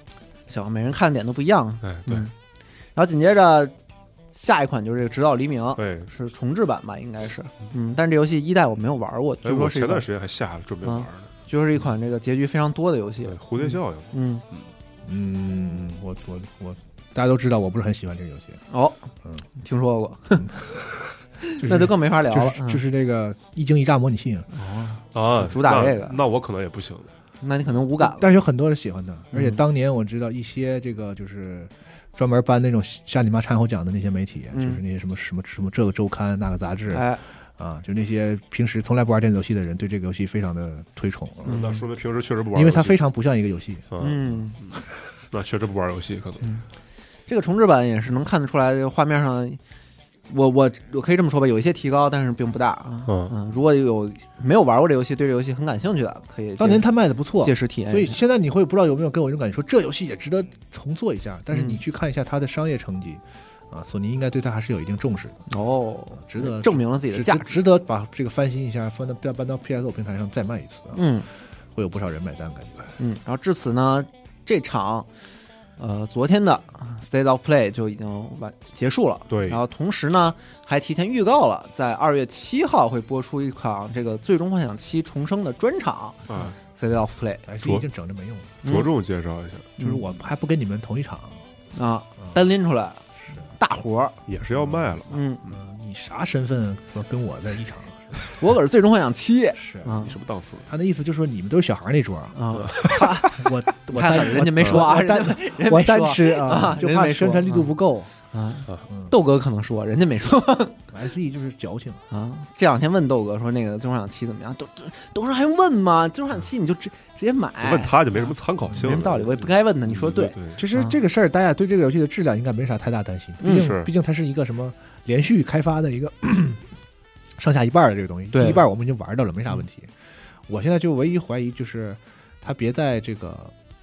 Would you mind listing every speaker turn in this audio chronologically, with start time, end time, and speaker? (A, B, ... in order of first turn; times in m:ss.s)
0:00.5-0:02.3 A
0:01.8-0:02.3 B
0:02.9-0:03.7 A
0:04.3-0:10.0 A
0:05.8-0:06.1 B
0:09.4-0:11.3 B
0:10.8-0:14.4 A
0:13.2-0:14.7 B
0:15.0-0:18.6 C
0:18.7-0:20.5 A
0:21.4-0:22.8 A
0:21.6-0:24.5 C
0:24.5-0:26.2 A
0:25.1-0:27.1 B
0:27.4-0:28.3 A
0:28.0-0:41.6 C
0:29.3-0:29.6 A
0:34.5-0:34.8 A
0:36.9-0:37.2 A
0:41.4-0:43.0 B
0:41.4-0:41.8 A
0:42.5-0:43.9 C
0:43.9-0:46.4 B
0:44.0-0:44.6 A
0:47.3-0:49.6 A
0:50.3-0:56.9 A
0:53.1-0:53.3 B
0:56.6-1:05.4 C
0:57.4-0:58.2 A
1:01.5-1:01.8 A
1:05.5-1:07.6 A
1:06.2-1:11.0 C
1:10.9-1:11.3 A
1:11.7-1:12.9 C
1:13.0-1:15.1 A
1:15.8-1:27.4 A
1:19.3-1:19.6 B
1:26.3-1:26.5 B
1:27.4-1:28.6 C
1:28.6-1:28.9 A
1:28.6-1:29.8 B
1:29.8-1:30.0 A
1:29.8-1:31.4 C
1:31.7-1:34.2 A
1:34.3-1:35.2 B
1:34.5-1:38.2 C
1:35.1-1:35.5 A
1:38.4-1:40.1 A
1:39.6-1:40.1 C
1:40.0-1:40.6 B
1:40.6-1:48.1 C
1:42.3-1:47.7 A
1:42.6-1:43.0 B
1:48.3-1:50.8 A
1:50.9-1:52.0 C
1:52.1-2:01.0 A
1:57.6-2:00.6 B
2:00.5-2:06.6 C
2:03.4-2:03.7 A
2:03.5-2:03.9 B
2:07.4-2:09.9 C
2:08.3-2:08.6 A
2:10.5-2:13.5 C